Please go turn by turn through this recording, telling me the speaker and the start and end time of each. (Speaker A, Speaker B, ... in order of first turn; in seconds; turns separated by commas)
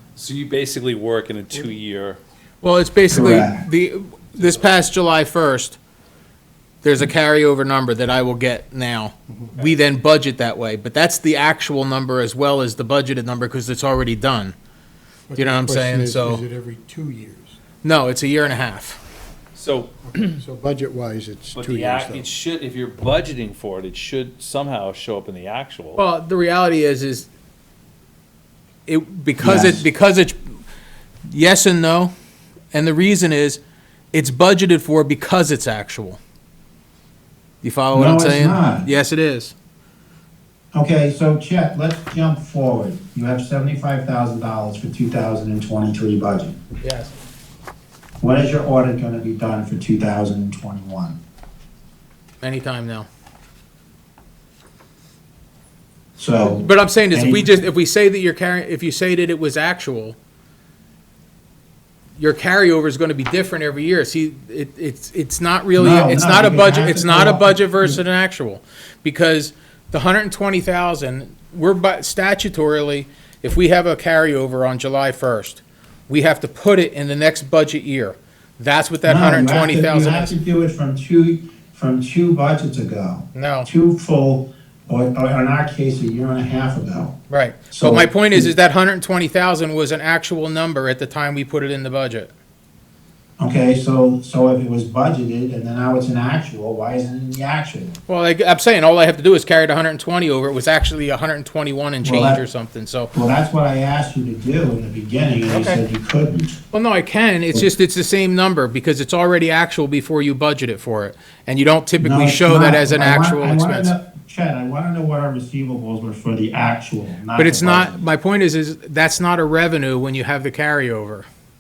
Speaker A: 0.2-2.2, Speaker B: 2.6-5.8, Speaker C: 3.1-3.6, Speaker A: 4.4-4.7, Speaker B: 6.8-14.6, Speaker D: 15.3-17.6, Speaker B: 15.4-16.4, Speaker B: 17.8-19.0, Speaker A: 19.6-20.4, Speaker D: 20.2-22.3, Speaker A: 21.6-26.0, Speaker B: 26.0-27.3, Speaker B: 28.9-30.4, Speaker C: 29.4-29.8, Speaker B: 31.3-32.1, Speaker B: 32.7-33.6, Speaker B: 34.1-36.2, Speaker B: 37.6-39.5, Speaker C: 37.9-38.9, Speaker C: 40.7-46.6, Speaker B: 46.8-47.1, Speaker C: 48.2-51.2, Speaker B: 52.4-53.1, Speaker C: 56.2-57.5, Speaker B: 56.5-60.2, Speaker B: 62.2-80.4, Speaker C: 65.8-68.0, Speaker C: 79.0-87.1, Speaker B: 83.3-83.7, Speaker B: 87.3-92.3, Speaker C: 87.7-88.5, Speaker C: 93.4-98.0, Speaker B: 98.1-103.1, Speaker C: 102.0-102.4, Speaker C: 103.1-106.6, Speaker B: 105.5-105.8, Speaker B: 106.7-113.9, Speaker C: 112.0-118.0, Speaker B: 117.4-121.3